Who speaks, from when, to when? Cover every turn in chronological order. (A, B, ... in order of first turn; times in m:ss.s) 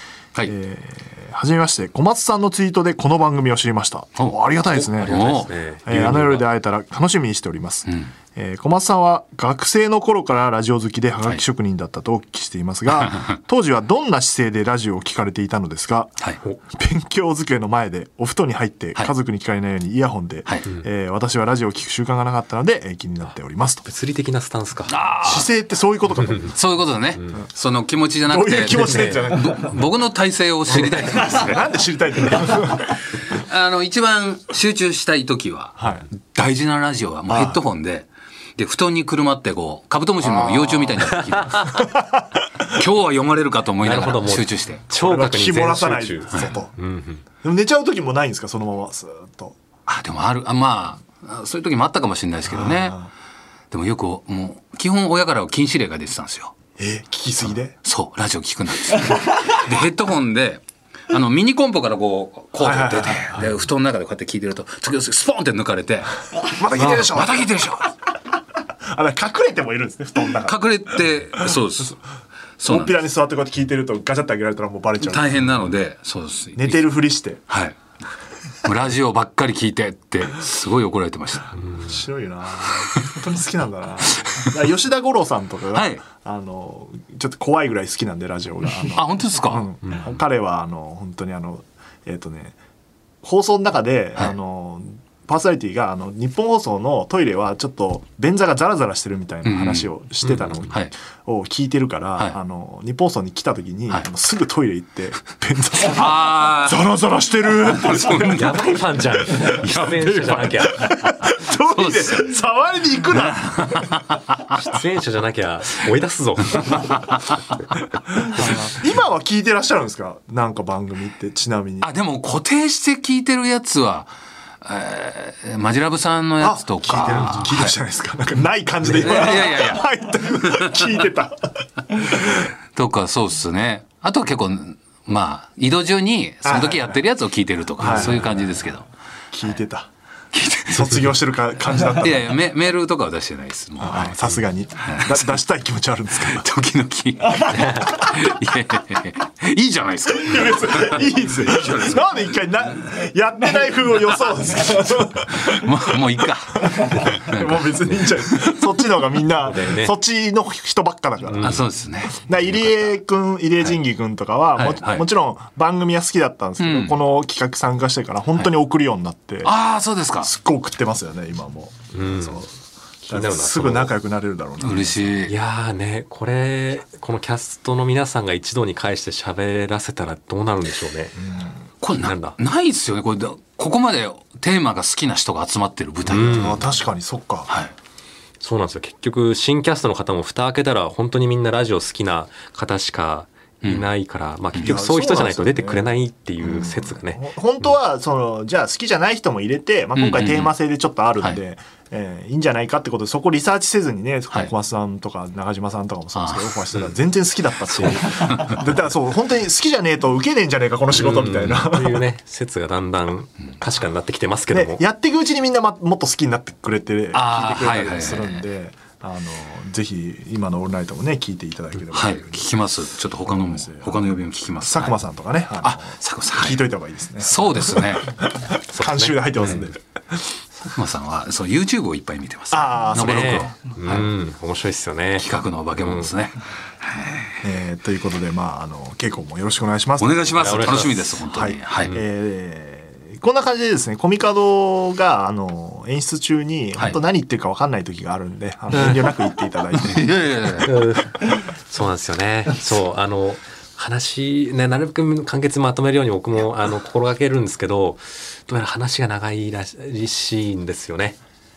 0:00.4-0:16.1 A
0:04.8-0:06.4 B
0:04.9-0:06.4 C
0:13.0-0:13.3 C
0:16.7-0:23.8 A
0:23.8-0:25.0 B
0:24.9-0:25.5 C
0:25.2-0:26.5 A
0:26.5-0:31.7 C
0:28.3-0:29.8 A
0:28.9-0:29.2 B
0:30.7-0:31.6 B
0:30.7-0:32.9 A
0:32.3-0:41.9 C
0:35.8-0:36.0 A
0:37.3-0:37.6 A
0:40.2-0:41.1 A
0:41.6-0:42.8 A
0:42.6-0:44.8 C
0:43.8-0:47.2 B
0:44.9-0:46.7 A
0:47.4-0:49.6 A
0:49.9-0:53.0 C
0:52.5-0:53.1 A
0:53.7-0:56.5 C
0:56.8-0:57.8 A
0:57.8-1:07.9 C
0:59.0-0:59.5 A
1:02.6-1:03.5 A
1:06.4-1:07.5 A
1:08.8-1:10.6 A
1:10.4-1:12.0 C
1:12.6-1:13.0 C
1:12.7-1:15.3 A
1:15.0-1:17.8 C
1:16.6-1:17.4 A
1:18.6-1:21.6 C
1:21.7-1:32.6 A
1:22.7-1:23.2 C
1:24.2-1:24.5 C
1:25.7-1:26.0 C
1:28.9-1:30.0 C
1:33.2-1:48.6 A
1:39.4-1:39.9 C
1:45.8-1:46.9 C
1:47.6-1:48.6 C
1:48.2-1:51.3 B
1:49.3-1:54.0 A
1:49.4-1:50.7 C
1:51.5-1:52.4 C
1:53.1-1:54.6 C
1:54.5-1:57.1 B
1:58.2-2:01.9 A
2:01.8-2:04.1 C
2:04.6-2:07.7 C
2:06.4-2:12.5 A
2:08.9-2:09.9 C
2:10.4-2:10.8 C
2:12.3-2:18.9 C
2:16.4-2:17.0 A
2:17.8-2:18.4 A
2:19.3-2:19.9 A
2:20.3-2:21.2 C
2:20.7-2:22.3 A
2:21.8-2:25.4 C
2:23.8-2:26.5 A
2:26.2-2:32.1 C
2:27.4-2:28.2 A
2:30.1-2:49.5 A
2:35.2-2:37.7 C
2:39.5-2:39.9 B
2:41.3-2:41.6 B
2:41.4-2:42.7 C
2:44.6-2:45.1 C
2:46.6-2:47.0 C
2:49.4-2:50.3 C
2:50.2-2:52.5 A
2:51.9-2:52.4 B
2:53.0-2:55.2 A
2:53.1-2:53.9 B
2:54.6-2:55.3 C
2:55.2-3:01.2 B
3:01.2-3:01.5 A
3:01.8-3:06.6 C
3:01.9-3:02.4 B
3:06.1-3:06.6 B
3:06.2-3:07.5 A
3:08.4-3:17.2 B
3:14.6-3:15.9 A
3:16.4-3:32.0 A
3:20.0-3:20.5 C
3:26.1-3:26.4 C
3:27.8-3:28.6 C
3:30.9-3:34.8 B
3:34.5-3:42.4 A
3:37.1-3:38.4 C
3:41.9-3:44.9 C
3:43.3-3:44.1 A
3:44.7-3:50.4 A
3:45.6-3:48.2 C
3:48.7-3:49.2 B
3:50.7-3:54.1 C
3:52.5-3:53.5 A
3:52.9-3:56.1 B
3:55.2-3:57.4 C
3:57.4-4:10.1 A
4:00.0-4:02.0 C
4:00.4-4:01.1 B
4:09.8-4:10.8 C
4:10.6-4:21.2 B